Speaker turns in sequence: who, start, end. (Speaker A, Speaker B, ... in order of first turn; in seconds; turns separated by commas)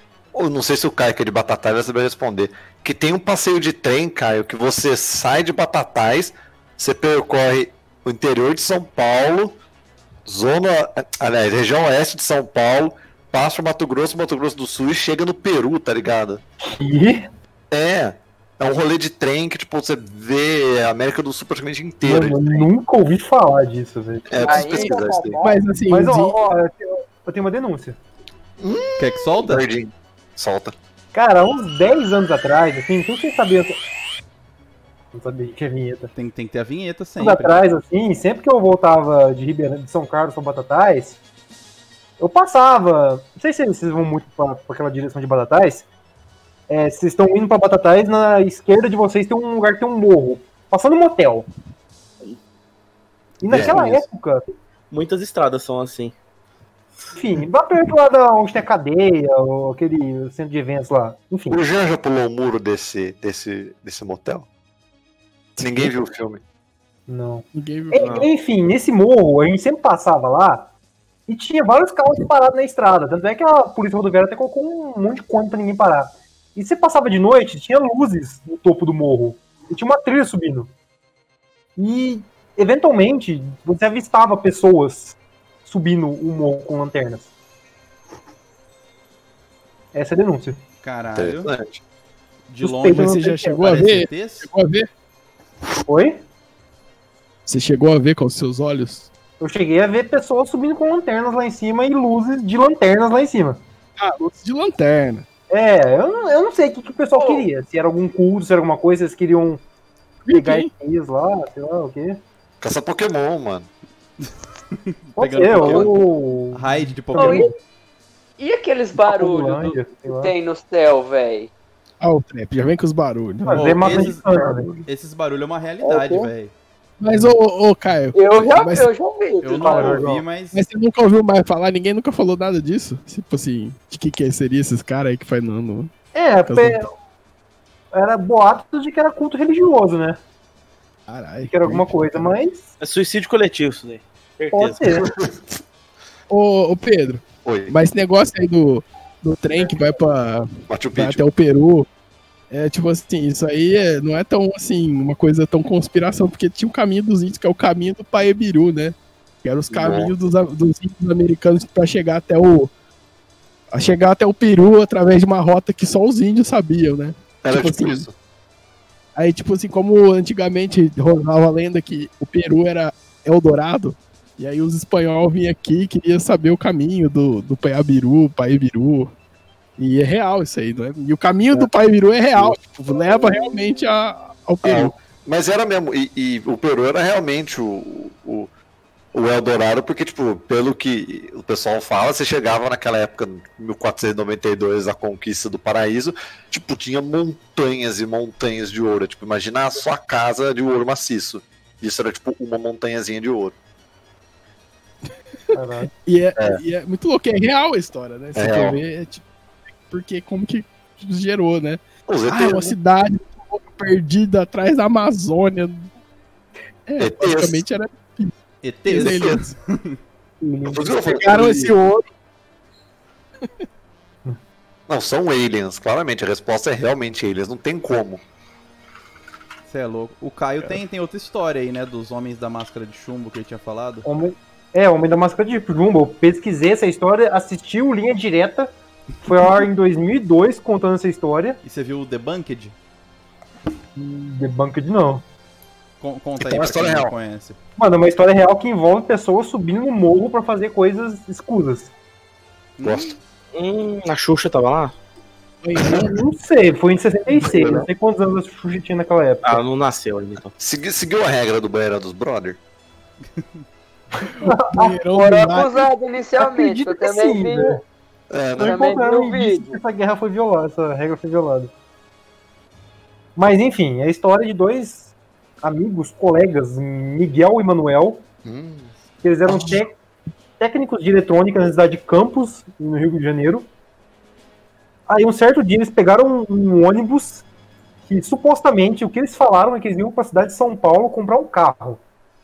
Speaker A: 0.3-9.6, Speaker A: 10.3-16.4, Speaker B: 16.6-17.3, Speaker A: 17.7-22.7, Speaker B: 22.0-28.0, Speaker A: 24.3-25.4, Speaker C: 24.4-25.6, Speaker D: 25.4-26.4, Speaker A: 28.6-30.8, Speaker E: 29.0-29.7, Speaker B: 31.1-33.8, Speaker B: 35.1-36.1, Speaker E: 36.1-37.6, Speaker B: 37.2-41.2, Speaker B: 42.2-45.9, Speaker B: 46.7-51.5, Speaker B: 53.4-54.5, Speaker A: 53.5-53.9, Speaker F: 54.9-56.2, Speaker B: 57.1-61.6, Speaker A: 61.5-64.5, Speaker D: 65.6-65.9, Speaker A: 65.6-66.4, Speaker B: 67.1-70.7, Speaker D: 67.5-68.1, Speaker F: 68.0-68.3, Speaker B: 71.3-80.7, Speaker B: 81.8-87.3, Speaker B: 89.9-90.6, Speaker E: 90.8-91.5, Speaker A: 91.2-91.8, Speaker E: 92.5-94.5, Speaker B: 92.6-93.7, Speaker D: 92.9-94.9, Speaker B: 95.9-96.2, Speaker D: 97.5-99.1, Speaker B: 99.4-103.6, Speaker D: 104.0-105.3, Speaker B: 105.5-109.6, Speaker C: 107.2-107.5, Speaker D: 110.3-110.7, Speaker B: 110.3-112.2, Speaker A: 112.6-113.7, Speaker E: 114.9-116.0, Speaker B: 115.2-117.5, Speaker E: 116.5-117.5, Speaker C: 117.2-117.5, Speaker C: 118.4-121.5, Speaker B: 119.0-120.3, Speaker D: 122.0-123.8, Speaker B: 123.5-124.8, Speaker E: 123.5-126.5, Speaker C: 125.8-126.3, Speaker D: 127.0-128.9, Speaker C: 128.1-130.0, Speaker E: 129.4-130.6, Speaker B: 129.6-130.2, Speaker D: 130.5-135.9, Speaker B: 136.2-136.9, Speaker D: 136.5-136.8, Speaker B: 137.9-140.2, Speaker D: 141.1-142.2, Speaker B: 141.5-142.7, Speaker F: 142.8-144.9, Speaker B: 144.5-145.1, Speaker A: 145.1-145.4, Speaker D: 146.3-151.9, Speaker A: 147.4-147.7, Speaker A: 150.7-151.2, Speaker D: 152.5-162.7, Speaker A: 159.7-160.1, Speaker D: 163.7-168.1, Speaker A: 167.4-168.1, Speaker D: 169.2-179.1, Speaker D: 179.8-184.9, Speaker A: 184.6-188.5, Speaker A: 189.1-203.6, Speaker B: 205.5-205.9, Speaker D: 205.9-209.2, Speaker A: 208.4-208.8, Speaker D: 209.9-215.9, Speaker A: 212.1-212.8, Speaker D: 216.9-218.3, Speaker A: 217.0-217.6, Speaker E: 218.6-220.0, Speaker D: 218.9-219.5, Speaker A: 218.9-219.4, Speaker B: 220.4-221.0, Speaker A: 220.7-221.8, Speaker D: 221.1-222.1, Speaker A: 224.9-228.2, Speaker E: 229.7-234.1, Speaker B: 234.1-241.6, Speaker E: 241.6-242.8, Speaker B: 243.9-245.2, Speaker E: 246.0-247.6, Speaker A: 246.4-247.1, Speaker B: 247.8-251.9, Speaker E: 252.8-253.2, Speaker A: 252.8-253.2, Speaker F: 253.5-255.0, Speaker D: 255.6-256.2, Speaker A: 255.8-256.1, Speaker B: 255.8-259.6, Speaker A: 257.4-257.9, Speaker F: 259.4-260.5, Speaker A: 260.6-262.6, Speaker E: 263.4-263.6, Speaker B: 264.4-265.0, Speaker D: 264.4-265.9, Speaker C: 265.1-267.8, Speaker B: 266.4-267.8, Speaker A: 268.3-268.8, Speaker C: 268.6-269.8, Speaker B: 268.6-271.7, Speaker B: 273.4-278.2, Speaker A: 278.4-278.9, Speaker B: 279.2-280.0, Speaker B: 280.6-283.7, Speaker B: 285.1-287.4, Speaker B: 288.1-292.0